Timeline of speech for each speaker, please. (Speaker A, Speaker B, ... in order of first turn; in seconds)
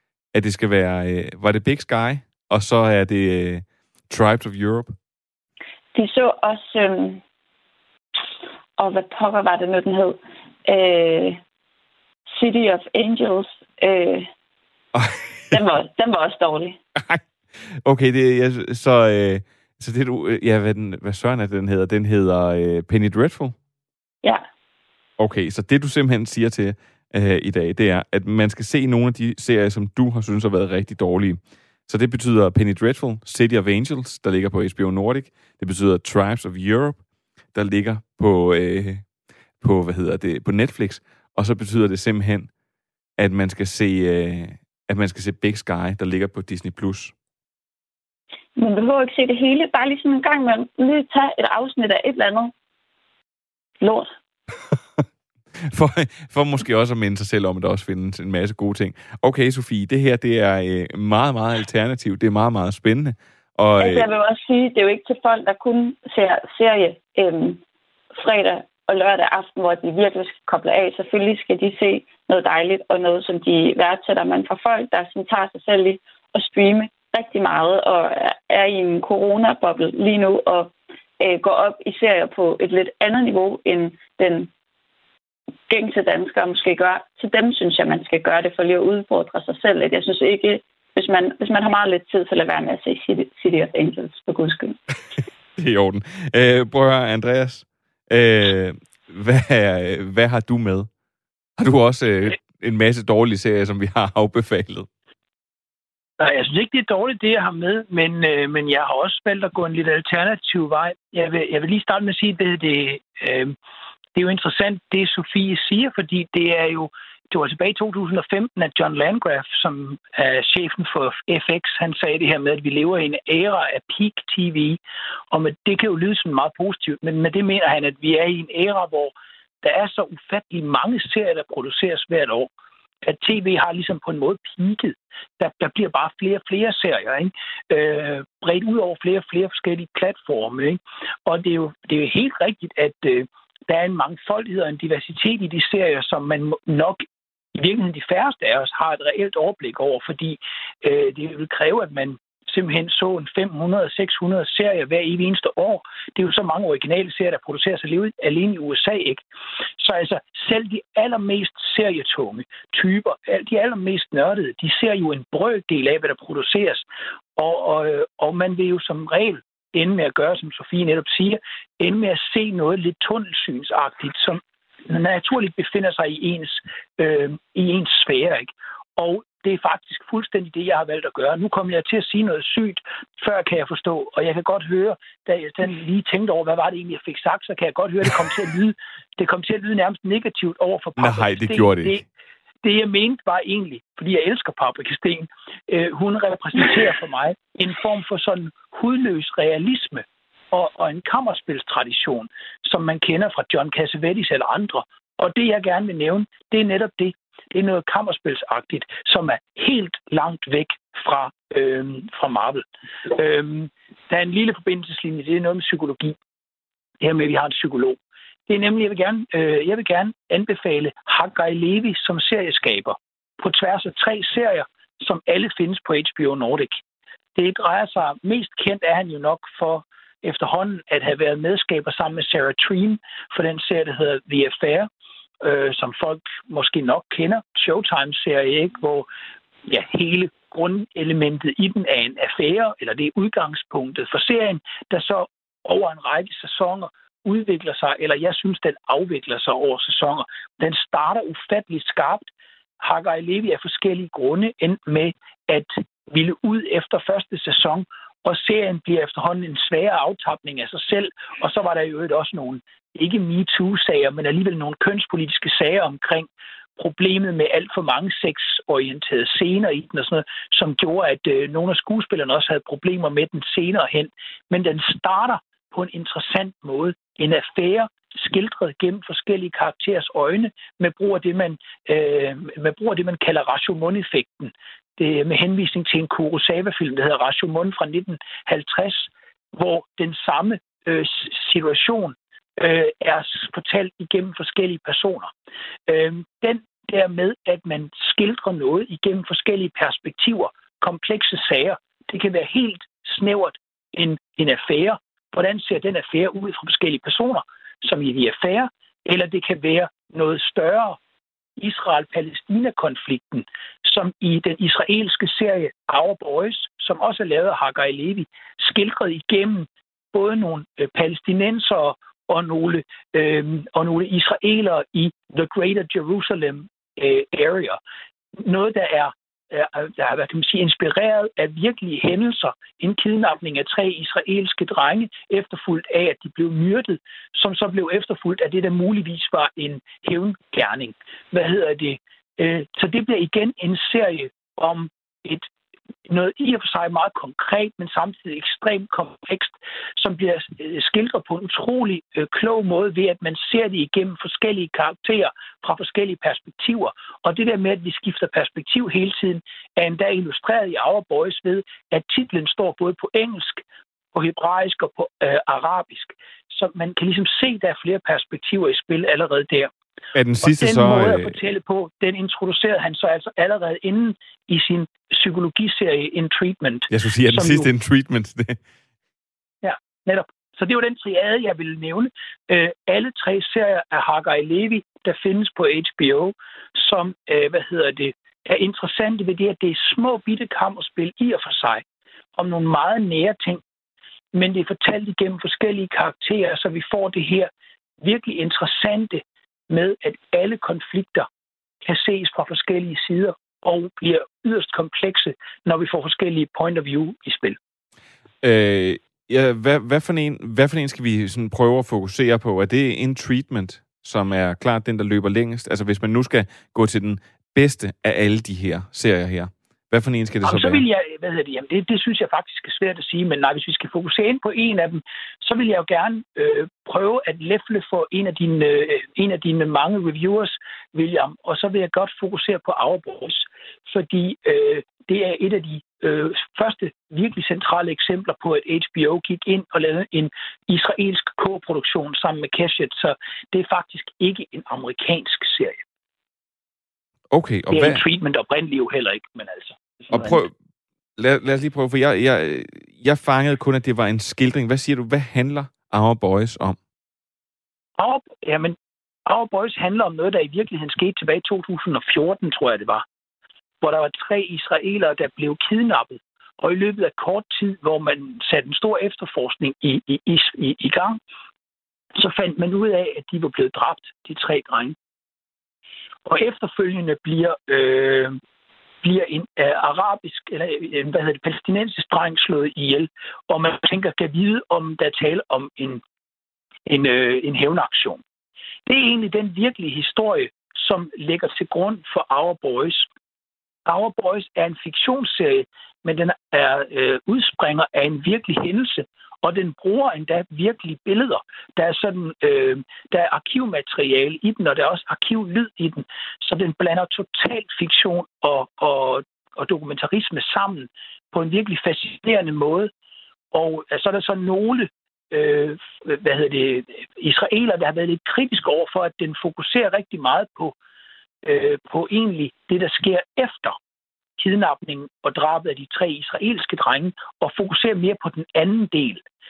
Speaker A: 0.3-5.0, 14.9-15.6, 17.0-17.2, 17.9-23.6, 25.2-37.0, 37.5-39.0, 39.6-42.5, 43.2-47.1, 55.6-64.1, 95.6-100.9, 101.6-104.9, 191.0-192.0, 370.1-371.4, 376.9-378.6, 408.4-420.8, 447.3-448.0, 450.1-450.5, 451.2-456.8
Speaker B: 6.0-7.2, 8.8-11.4, 12.3-14.3, 15.5-16.8, 48.6-52.5, 53.8-54.1, 63.8-67.6, 68.2-84.5, 85.7-94.8
Speaker C: 106.2-113.6, 114.2-124.8, 125.3-132.5, 133.0-147.0, 147.6-159.2, 159.8-192.0, 192.6-216.2, 217.0-226.8, 227.4-234.9, 235.4-239.1, 239.7-295.3, 295.9-311.0, 311.6-327.8, 328.4-345.5, 346.1-363.6, 364.1-369.7, 370.4-377.7, 379.6-391.8, 392.4-393.6, 394.3-401.3, 401.8-407.6, 420.4-445.8, 447.7-450.4, 458.0-463.1, 463.8-471.2, 472.1-475.0, 476.3-478.4, 479.0-486.0, 486.9-488.2, 488.9-493.1, 493.9-512.9, 513.5-520.8, 521.4-523.8, 524.4-529.2